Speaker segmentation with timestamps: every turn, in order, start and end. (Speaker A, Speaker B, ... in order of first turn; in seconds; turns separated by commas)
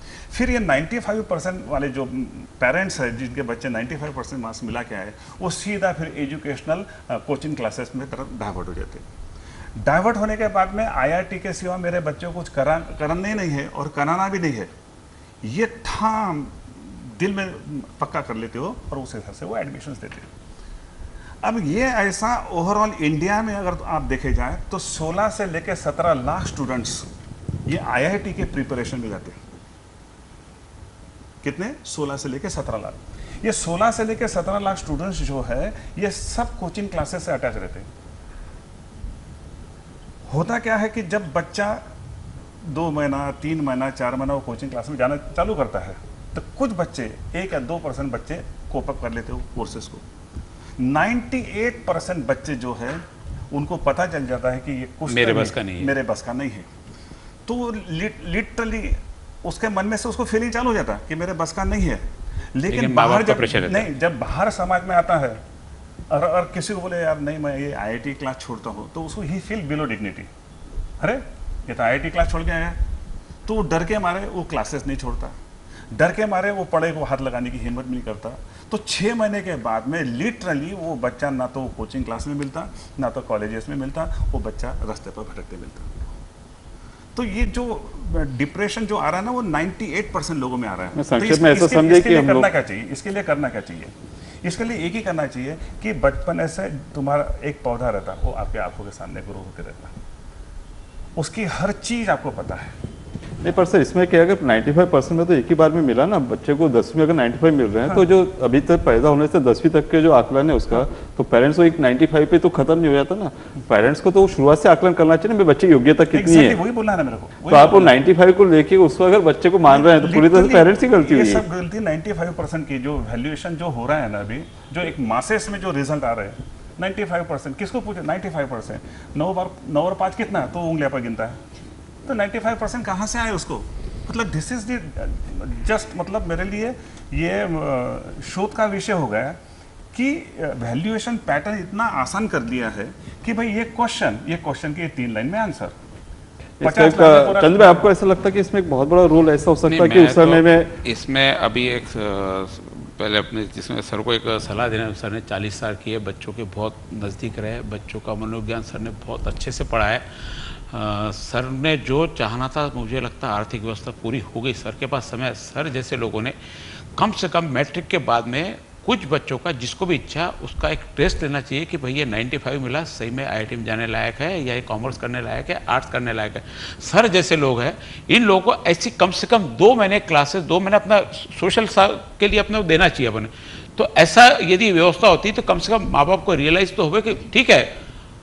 Speaker A: 0.3-9.0, Speaker A: 9.8-14.7, Speaker A: 15.4-20.3, Speaker A: 21.4-27.1, Speaker A: 27.6-29.4, Speaker A: 31.4-37.9, Speaker A: 40.3-41.8, Speaker A: 42.6-50.0, Speaker A: 50.8-56.7, Speaker B: 55.1-55.9, Speaker A: 57.5-65.4, Speaker B: 62.7-63.9, Speaker A: 66.1-70.3, Speaker A: 71.0-72.8, Speaker A: 73.5-75.3, Speaker A: 75.9-86.1, Speaker A: 87.1-99.9, Speaker C: 91.0-92.5, Speaker A: 101.2-102.7, Speaker C: 103.4-116.6, Speaker A: 116.1-118.0, Speaker C: 117.5-121.4, Speaker A: 119.7-131.4, Speaker A: 132.1-139.3, Speaker A: 139.9-145.7, Speaker C: 146.6-150.7, Speaker A: 146.6-147.9, Speaker B: 149.7-166.3, Speaker B: 167.0-187.7